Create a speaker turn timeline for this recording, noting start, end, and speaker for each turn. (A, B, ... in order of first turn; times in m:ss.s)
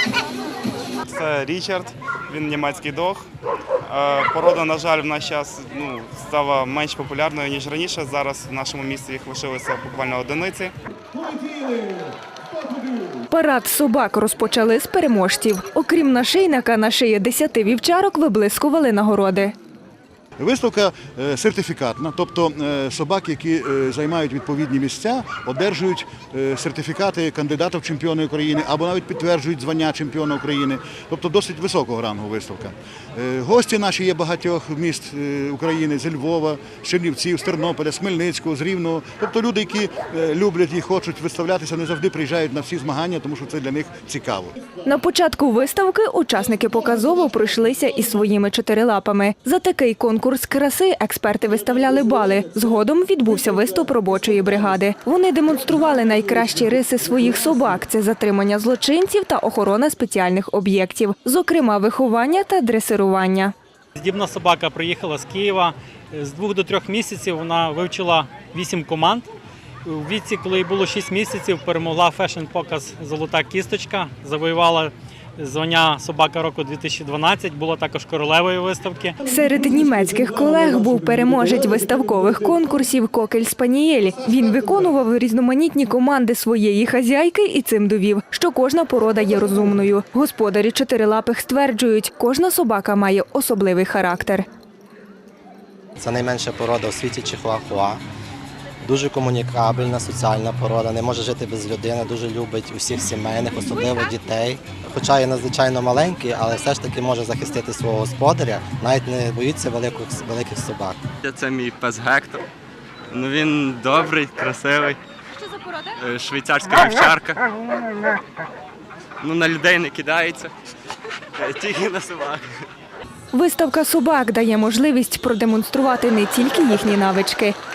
0:01.0-0:03.2 A
0:03.9-0:10.7 A
0:11.1-0:13.2 B
0:13.3-0:19.5 C
0:20.4-0:44.7 B
0:44.8-1:03.5 C
1:04.0-1:09.3 D
1:09.8-1:19.2 D
1:19.2-1:34.4 C
1:19.3-1:22.6 B
1:24.3-1:24.6 B
1:36.0-1:38.0 E
1:38.8-1:51.0 E
1:51.2-1:52.4 F
1:53.1-1:55.0 F
1:55.7-1:57.4 F
1:59.2-2:00.5 F
2:01.4-2:02.5 F
2:03.3-2:07.6 C